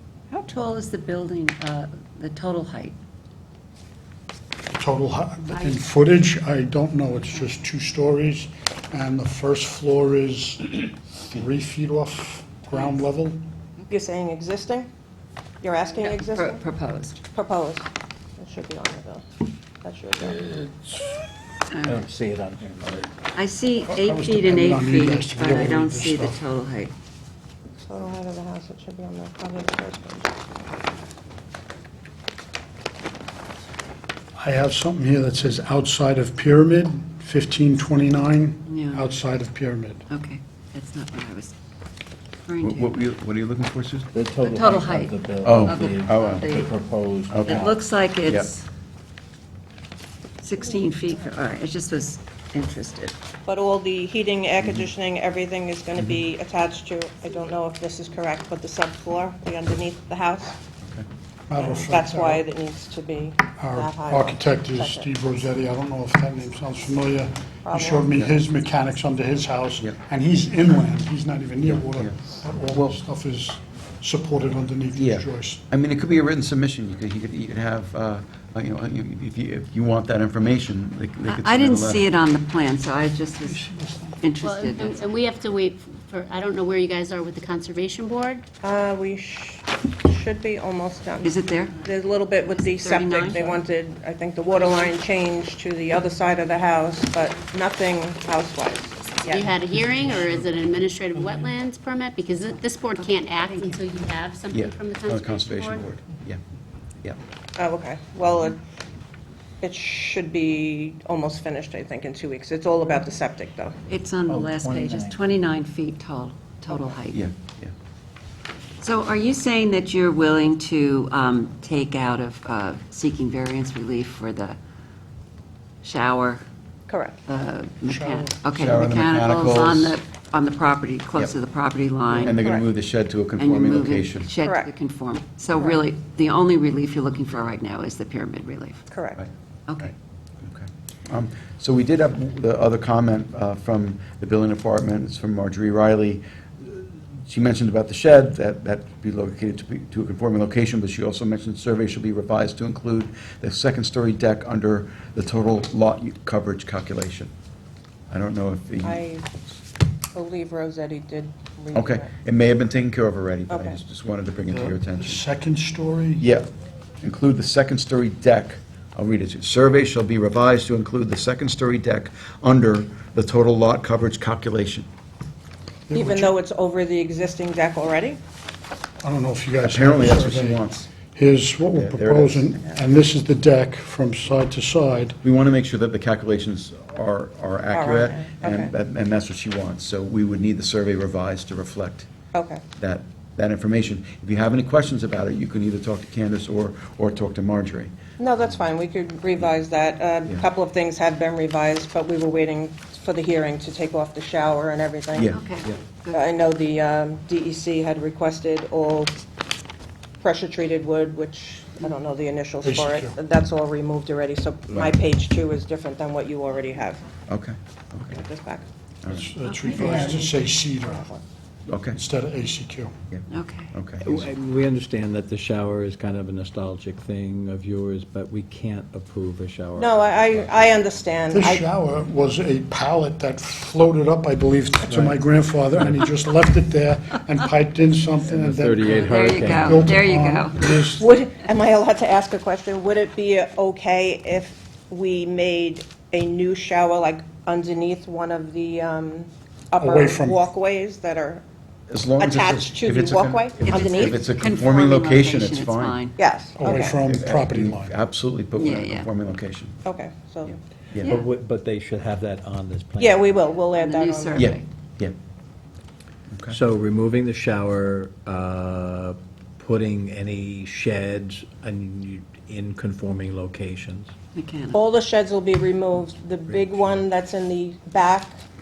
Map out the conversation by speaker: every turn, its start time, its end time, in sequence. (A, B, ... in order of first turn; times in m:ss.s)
0:00.3-0:02.9 A
0:04.7-0:13.4 B
0:12.7-0:13.0 A
0:13.9-0:14.9 C
0:15.6-0:16.6 C
0:16.0-0:17.2 A
0:17.3-0:19.2 C
0:19.8-0:20.4 C
0:20.2-0:21.2 D
0:21.7-0:22.0 A
0:21.8-0:23.1 D
0:23.3-0:26.9 A
0:23.8-0:26.4 B
0:27.8-0:30.5 C
0:34.4-0:40.0 B
0:38.7-0:39.1 A
0:40.1-0:41.5 A
0:42.5-0:43.0 A
0:42.6-0:44.1 E
0:44.1-0:47.7 D
0:44.4-0:46.7 A
0:45.4-0:46.5 E
0:47.3-0:47.7 E
0:47.4-0:48.6 A
0:50.4-0:53.1 A
0:53.5-1:00.6 C
1:01.5-1:02.4 B
1:01.6-1:05.1 C
1:03.6-1:15.6 B
1:07.6-1:08.1 C
1:11.6-1:12.2 E
1:12.7-1:13.0 E
1:15.0-1:22.1 E
1:21.3-1:23.7 A
1:23.5-1:24.2 B
1:24.2-1:25.1 A
1:24.4-1:28.4 F
1:28.6-1:39.5 C
1:31.2-1:31.8 A
1:32.5-1:33.6 A
1:39.3-1:45.8 F
1:39.9-1:40.4 B
1:41.2-1:41.4 B
1:44.5-1:46.4 E
1:47.6-1:48.6 C
1:49.6-1:53.8 C
1:53.9-1:57.2 A
1:54.3-1:55.2 D
1:57.1-1:57.7 E
1:58.8-2:04.6 A
2:05.8-2:06.4 A
2:06.9-2:07.2 C
2:07.3-2:12.4 A
2:07.8-2:08.4 B
2:08.6-2:10.0 E
2:12.1-2:14.3 E
2:12.3-2:12.6 C
2:13.4-2:18.8 A
2:14.4-2:14.7 C
2:15.6-2:15.8 C
2:18.9-2:19.2 C
2:19.8-2:37.3 E
2:38.1-2:39.0 E
2:38.8-2:39.3 C
2:40.1-2:42.1 C
2:41.7-2:45.2 E
2:43.5-2:43.8 C
2:44.5-2:46.3 B
2:46.2-2:46.5 E
2:47.0-2:54.9 E
2:55.9-2:56.3 B
2:55.9-2:58.2 C
2:59.0-3:00.6 B
2:59.6-3:00.9 E
3:01.1-3:05.2 B
3:01.7-3:02.6 E
3:05.2-3:12.1 E
3:07.7-3:08.7 C
3:12.3-3:12.6 C
3:12.8-3:17.9 E
3:18.2-3:25.4 C
3:25.3-3:26.3 A
3:26.1-3:29.2 C
3:30.2-3:37.0 C
3:32.6-3:33.2 B
3:37.3-3:38.2 E
3:38.1-3:38.7 C
3:39.0-3:39.3 E
3:39.1-3:41.1 B
3:39.6-3:41.2 C
3:39.7-3:40.2 F
3:41.7-3:42.0 E
3:41.9-3:42.9 B
3:43.1-3:44.2 E
3:43.3-3:43.7 A
3:44.0-3:50.8 D
3:49.8-3:51.6 C
3:51.3-4:01.0 B
3:54.8-3:56.1 D
3:58.2-4:00.1 D
3:59.1-4:00.6 A
4:01.0-4:11.4 C
4:09.8-4:10.4 B
4:11.9-4:16.0 E
4:12.2-4:14.2 C
4:13.7-4:16.2 A
4:16.2-4:17.0 C
4:16.6-4:17.9 B
4:16.9-4:19.8 E
4:18.6-4:19.1 A
4:19.8-4:20.6 C
4:20.4-4:21.2 E
4:21.0-4:23.4 D
4:23.0-4:24.5 C
4:23.7-4:24.6 A
4:24.4-4:25.1 E
4:26.3-4:26.6 E
4:26.5-4:34.1 D
4:34.3-4:34.8 A
4:34.7-4:38.4 C